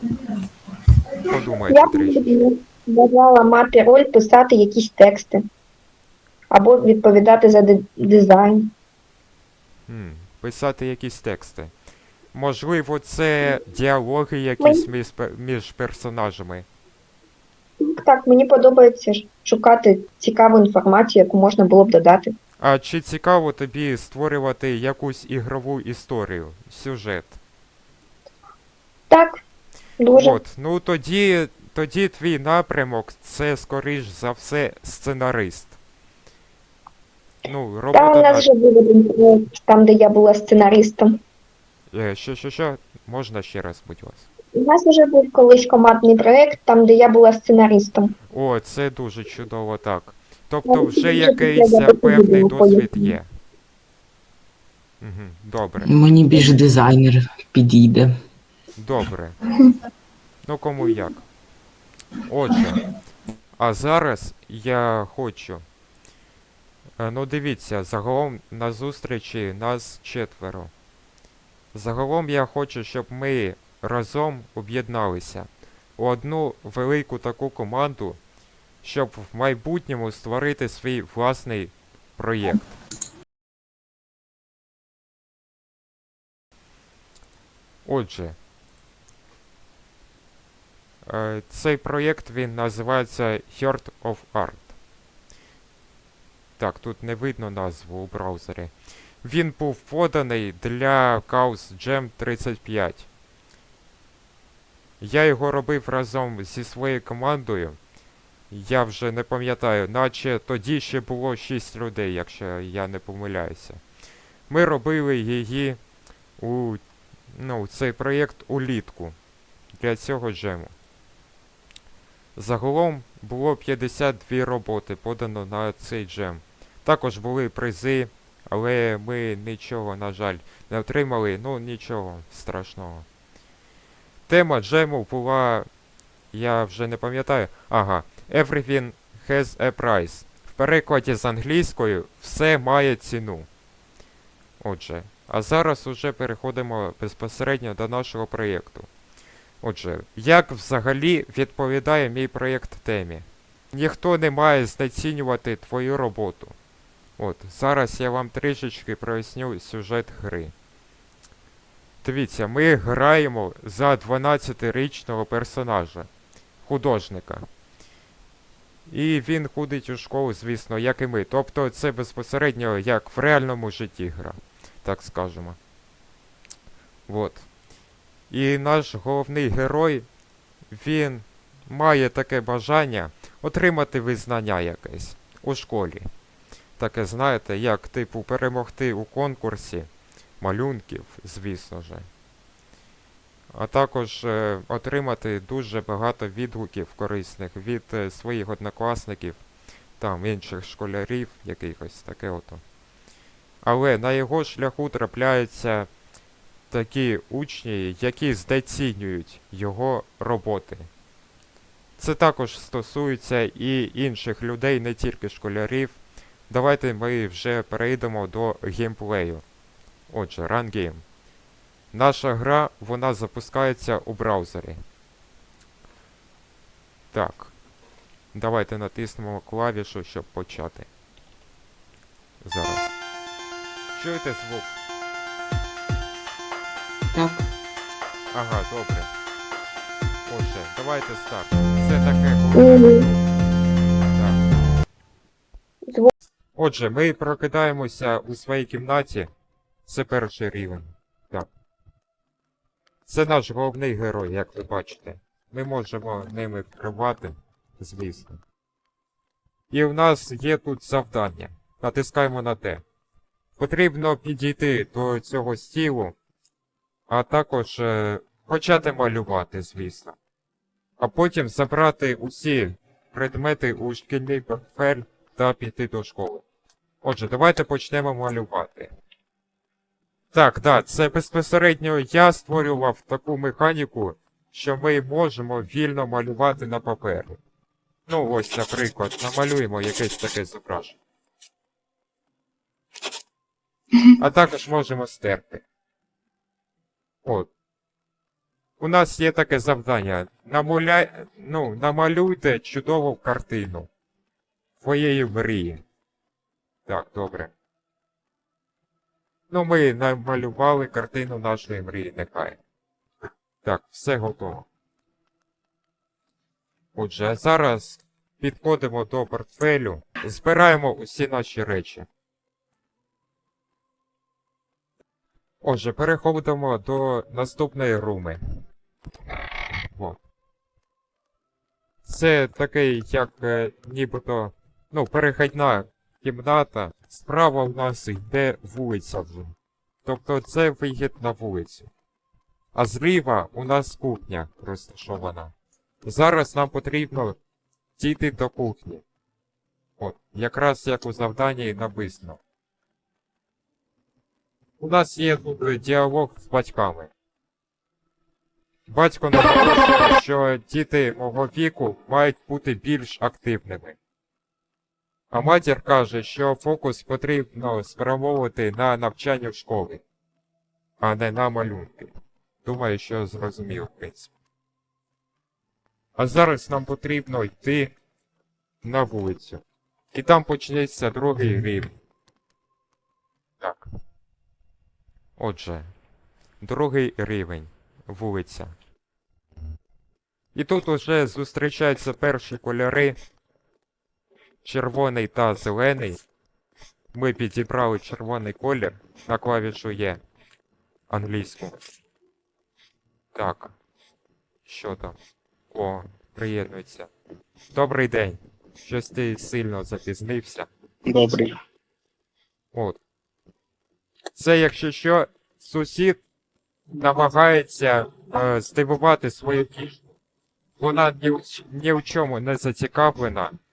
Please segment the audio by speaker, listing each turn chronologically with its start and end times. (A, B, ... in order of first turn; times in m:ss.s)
0:01.2-0:02.3 A
0:01.7-0:05.4 B
0:06.5-0:08.7 B
0:09.9-0:11.7 A
0:12.3-0:16.7 A
0:17.8-0:22.3 B
0:22.6-0:27.4 A
0:29.1-0:29.4 B
0:30.0-0:30.4 B
0:30.1-0:35.8 A
0:37.4-0:38.5 A
0:37.9-0:41.2 B
0:41.9-0:44.2 A
0:44.6-0:48.1 B
0:48.3-0:53.3 A
0:50.7-0:53.1 B
0:55.0-0:55.9 A
0:55.8-0:58.1 C
0:58.8-0:59.4 A
1:00.4-1:01.2 A
1:02.2-1:02.9 A
1:03.6-1:05.6 A
1:07.0-1:10.7 A
1:11.7-1:18.2 A
1:18.8-1:22.8 A
1:27.9-1:28.4 A
1:31.0-1:34.7 A
1:36.6-1:43.1 A
1:45.0-1:47.8 A
1:48.5-1:53.8 A
1:54.5-1:55.8 A
1:56.4-1:56.8 A
1:57.3-1:59.2 A
1:59.8-2:00.7 A
2:02.4-2:13.1 A
2:14.3-2:15.7 A
2:16.3-2:23.5 A
2:24.6-2:28.9 A
2:29.6-2:36.6 A
2:37.2-2:40.5 A
2:42.0-2:46.1 A
2:46.6-2:47.5 A
2:48.9-2:55.6 A
2:57.1-2:57.4 A
2:58.3-3:00.1 A
3:00.7-3:06.1 A
3:06.8-3:09.9 A
3:10.4-3:12.1 A
3:13.5-3:19.4 A
3:20.0-3:22.6 A
3:23.6-3:25.9 A
3:26.7-3:30.9 A
3:32.0-3:36.0 A
3:36.5-3:39.4 A
3:40.1-3:41.0 A
3:41.9-3:44.8 A
3:47.1-3:47.5 A
3:48.3-3:50.9 A
3:52.4-3:52.9 A
3:53.9-3:54.8 A
3:58.3-3:59.1 A
4:00.3-4:03.2 A
4:02.6-4:03.0 B
4:04.1-4:04.4 A
4:06.6-4:09.3 A
4:09.9-4:11.5 A
4:13.1-4:18.4 A
4:19.7-4:22.8 A
4:23.6-4:26.2 A
4:27.1-4:30.2 A
4:31.0-4:36.4 A
4:37.0-4:38.9 A
4:40.3-4:47.4 A
4:48.1-4:51.0 A
4:54.1-4:55.6 A
4:57.2-4:57.5 A
4:58.8-5:03.9 A
5:04.8-5:05.8 A
5:06.8-5:07.5 A
5:09.5-5:12.6 A
5:13.6-5:14.7 A
5:16.9-5:22.1 A
5:25.6-5:28.4 A
5:29.9-5:30.2 A
5:32.0-5:39.5 A
5:40.0-5:41.9 A
5:42.7-5:45.5 A
5:46.0-5:47.4 A
5:48.0-5:49.0 A
5:50.0-5:52.4 A
5:54.8-5:57.1 A
5:58.9-6:04.0 A
6:05.3-6:10.0 A
6:11.0-6:12.1 A
6:12.6-6:14.3 A
6:16.2-6:17.9 A
6:18.8-6:21.9 A
6:23.6-6:23.8 A
6:25.4-6:25.9 A
6:26.6-6:28.7 A
6:30.5-6:33.2 A
6:34.6-6:36.2 A
6:37.1-6:40.2 A
6:41.1-6:41.8 A
6:43.3-6:43.7 A
6:44.7-6:45.2 A
6:45.7-6:47.1 A
6:47.7-6:50.7 A
6:52.7-6:53.0 A
6:54.3-6:56.2 A
6:56.9-7:00.0 A
7:00.8-7:03.6 A